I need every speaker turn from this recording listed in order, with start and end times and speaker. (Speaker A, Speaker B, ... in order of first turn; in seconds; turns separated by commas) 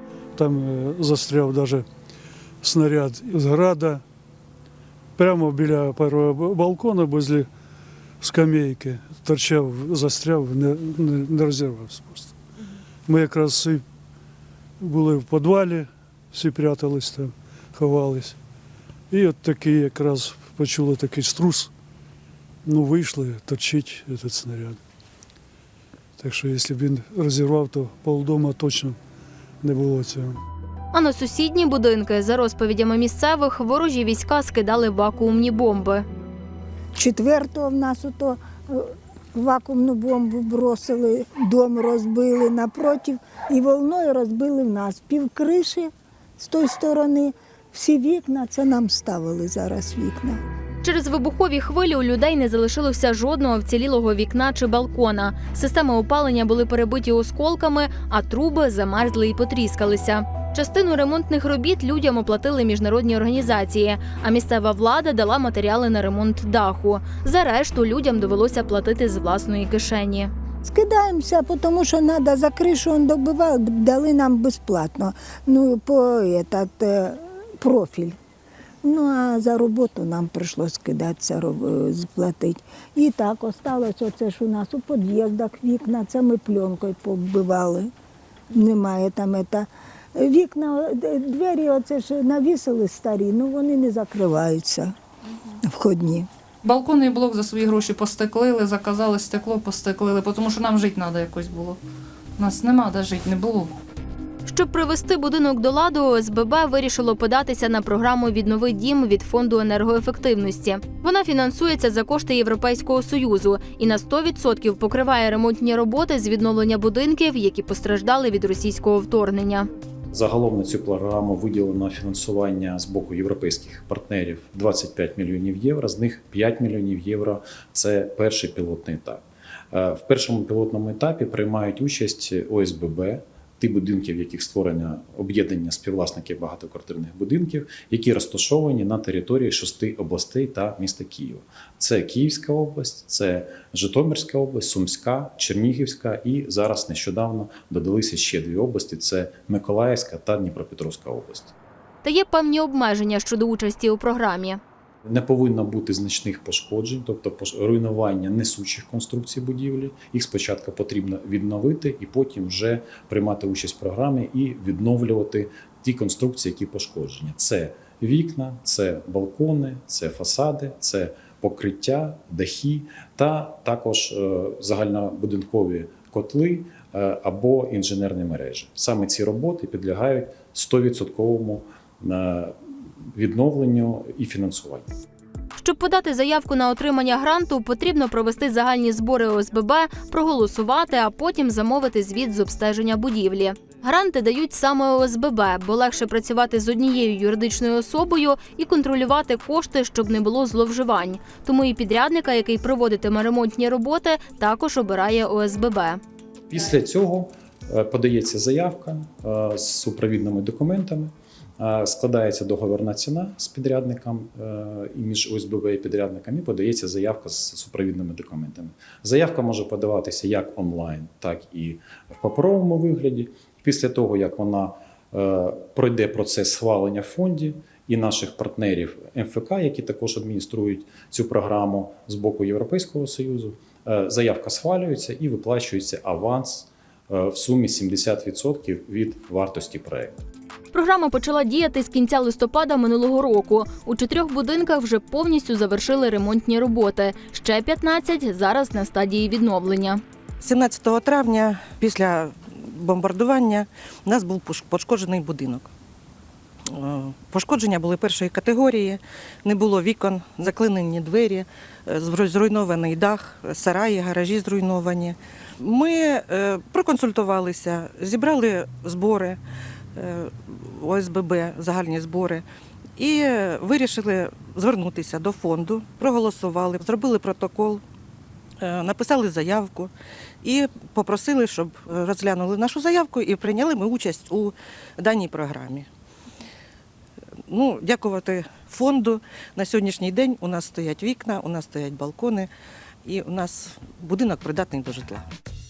Speaker A: 0.3-1.9, Speaker A: 2.6-4.0, Speaker A: 5.2-7.5, Speaker A: 8.2-12.4, Speaker A: 13.1-13.8, Speaker A: 14.8-18.4, Speaker A: 19.1-21.7, Speaker A: 22.6-24.8, Speaker A: 26.2-29.0, Speaker A: 29.6-30.4, Speaker B: 30.9-36.0, Speaker C: 37.0-38.8, Speaker C: 39.3-45.9, Speaker C: 46.4-50.4, Speaker B: 50.8-70.3, Speaker C: 70.7-78.2, Speaker C: 78.8-87.9, Speaker C: 88.5-94.9, Speaker C: 95.7-96.3, Speaker D: 96.6-101.8, Speaker D: 102.4-103.7, Speaker B: 104.5-119.7, Speaker E: 120.1-151.5, Speaker B: 152.0-154.6, Speaker E: 155.1-182.5, Speaker E: 183.2-184.9, Speaker B: 185.6-206.0, Speaker E: 206.5-240.2, Speaker B: 240.7-250.0, Speaker F: 250.4-255.7, Speaker F: 256.7-269.4, Speaker F: 269.9-272.5, Speaker F: 273.0-277.8, Speaker F: 278.6-285.9, Speaker F: 287.5-292.5, Speaker F: 293.1-295.3